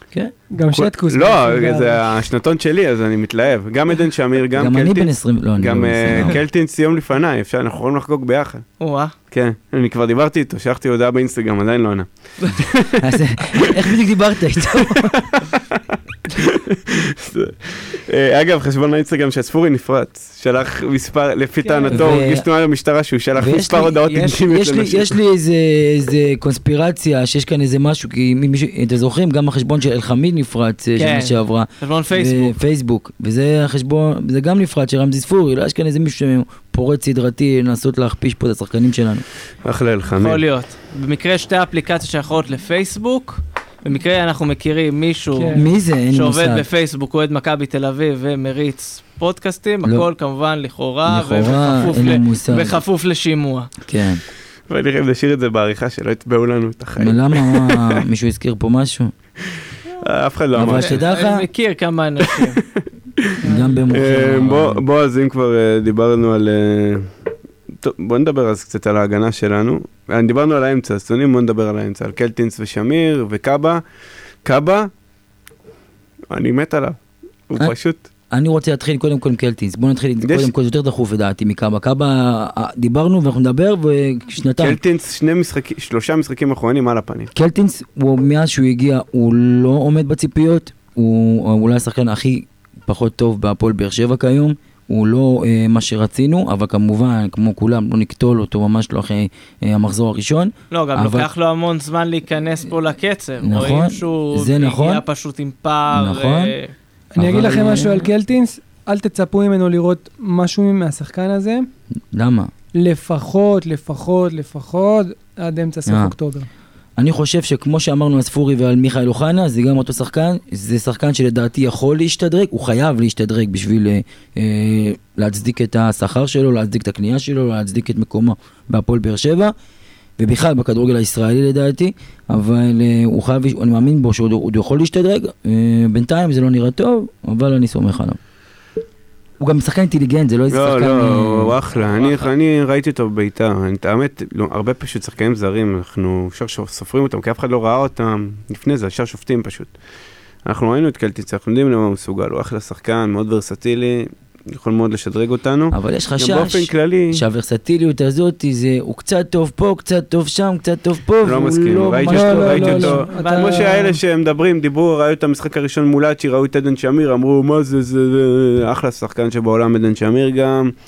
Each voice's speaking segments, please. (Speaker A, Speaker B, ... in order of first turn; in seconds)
Speaker A: 0.5-2.1, 45.3-45.6, 63.4-63.8, 107.1-111.7, 112.7-116.5, 162.0-163.9
Speaker B: 0.7-8.6, 9.3-13.8, 14.7-25.1, 39.6-40.4, 54.7-58.0, 60.0-61.0, 63.9-67.0, 67.8-73.8, 74.4-74.9, 76.3-78.0, 80.2-80.5, 84.6-87.3, 140.5-149.7, 150.4-157.2, 161.2-170.7
Speaker C: 4.5-6.4, 13.0-15.2, 21.9-22.4, 23.4-39.2, 45.5-46.6, 51.0-52.8, 53.9-54.2, 57.0-59.1, 60.5-61.5, 63.4-64.8, 78.3-84.8, 87.3-101.3, 103.4-105.0, 105.9-106.5, 107.2-108.1, 112.1-112.5, 115.9-116.1, 117.0-129.5, 130.2-138.2, 139.4-141.6, 155.7-163.0
Speaker D: 8.8-9.1, 24.0-24.4, 31.0-32.5, 40.1-53.7, 60.7-62.6, 100.7-106.7, 141.7-142.3, 163.1-163.9